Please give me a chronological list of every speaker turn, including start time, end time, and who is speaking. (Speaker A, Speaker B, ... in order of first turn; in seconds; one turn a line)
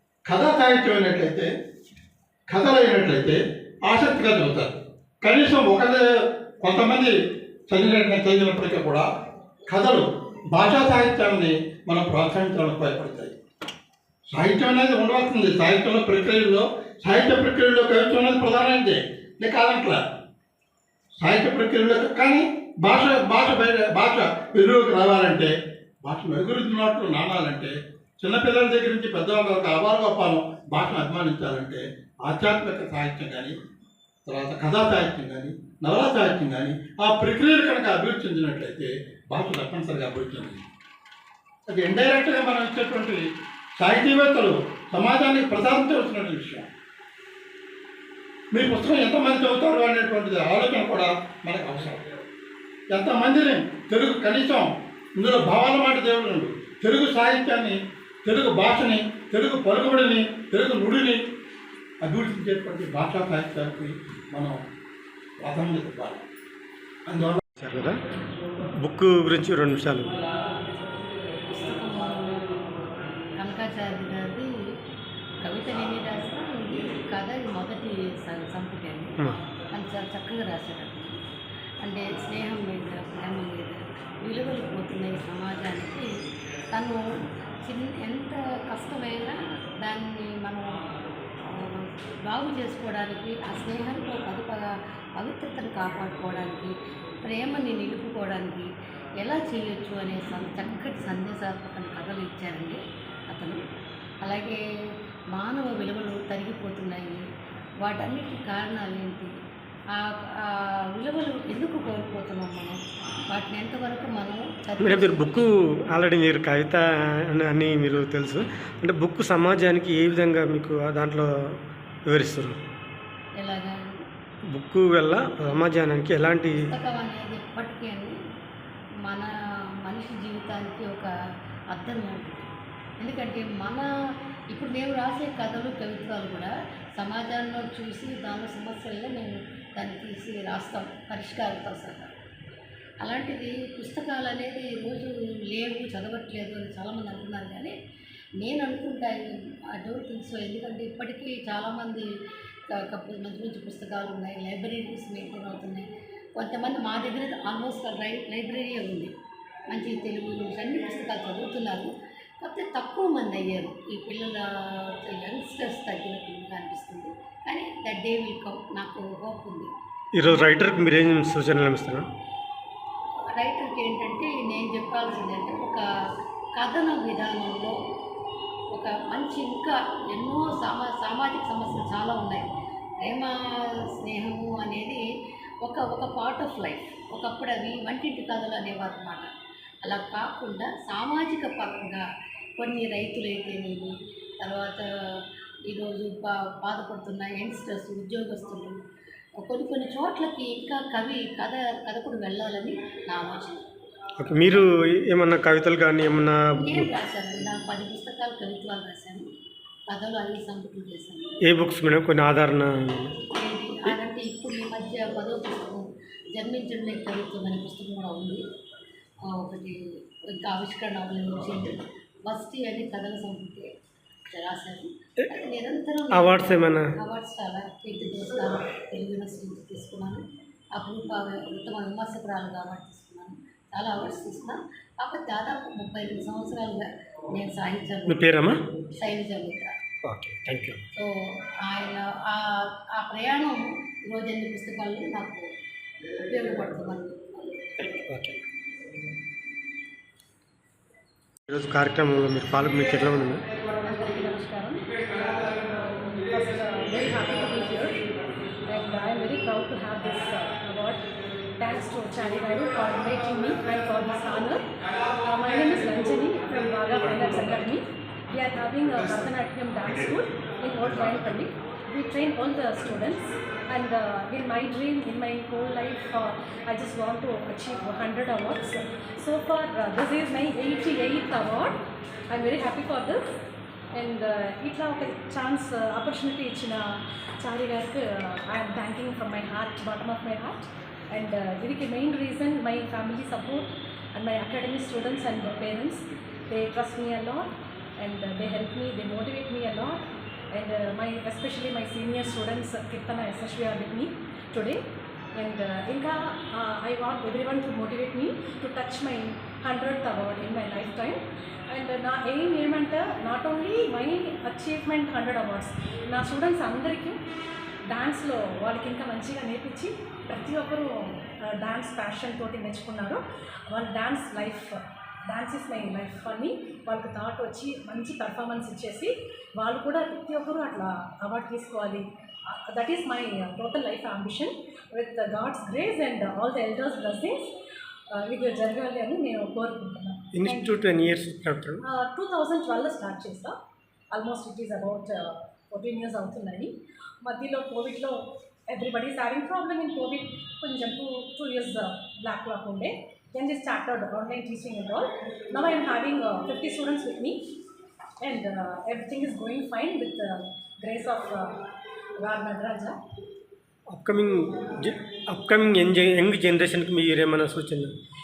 Speaker A: 0.3-1.5
Speaker A: 2.5-6.0
Speaker A: 6.6-7.2
Speaker A: 7.7-9.1
Speaker A: 9.7-13.4
Speaker A: 14.3-20.0
Speaker A: 21.2-33.6
Speaker A: 34.3-40.6
Speaker A: 41.7-43.2
Speaker A: 43.8-46.7
Speaker A: 48.5-52.1
Speaker A: 52.9-61.2
Speaker A: 62.0-64.6
Speaker A: 65.4-66.2
Speaker A: 67.1-67.4
Speaker B: 67.6-68.0
Speaker B: 68.8-70.2
Speaker C: 71.4-72.5
Speaker C: 73.4-74.5
Speaker C: 75.4-81.2
Speaker C: 81.8-86.1
Speaker C: 86.7-90.8
Speaker C: 91.4-96.7
Speaker C: 97.2-98.7
Speaker C: 99.2-103.6
Speaker C: 104.2-104.6
Speaker C: 105.3-107.2
Speaker C: 107.8-109.3
Speaker C: 110.0-112.8
Speaker C: 113.3-115.5
Speaker B: 114.8-121.3
Speaker B: 122.1-122.6
Speaker C: 123.4-123.9
Speaker B: 124.5-126.7
Speaker C: 126.5-128.2
Speaker C: 129.0-129.3
Speaker C: 129.8-131.1
Speaker C: 131.7-132.5
Speaker C: 133.0-133.9
Speaker C: 134.5-142.1
Speaker C: 143.0-147.7
Speaker C: 148.4-152.1
Speaker C: 152.7-159.1
Speaker C: 159.7-169.7
Speaker B: 170.2-172.1
Speaker C: 173.3-175.8
Speaker C: 176.6-177.8
Speaker C: 178.7-182.5
Speaker C: 183.0-185.0
Speaker C: 185.6-189.3
Speaker C: 189.8-192.1
Speaker C: 192.6-198.8
Speaker C: 199.4-203.7
Speaker B: 204.2-206.9
Speaker C: 206.6-209.3
Speaker C: 209.9-211.3
Speaker B: 211.5-213.2
Speaker C: 213.3-218.4
Speaker C: 219.2-223.7
Speaker C: 224.3-230.2
Speaker B: 226.1-226.9
Speaker C: 230.8-239.8
Speaker B: 238.1-238.6
Speaker B: 240.1-240.8
Speaker C: 240.9-245.5
Speaker C: 246.2-247.6
Speaker B: 247.8-248.4
Speaker B: 251.5-253.4
Speaker D: 253.8-258.1
Speaker D: 258.7-261.1
Speaker D: 261.6-283.4
Speaker D: 283.9-297.5
Speaker D: 298.0-304.8
Speaker D: 305.4-317.2
Speaker D: 317.9-337.5
Speaker D: 338.1-340.8
Speaker B: 340.4-341.8
Speaker D: 341.8-343.6
Speaker D: 344.1-357.4
Speaker D: 358.2-361.6
Speaker D: 362.2-363.0
Speaker B: 363.9-367.9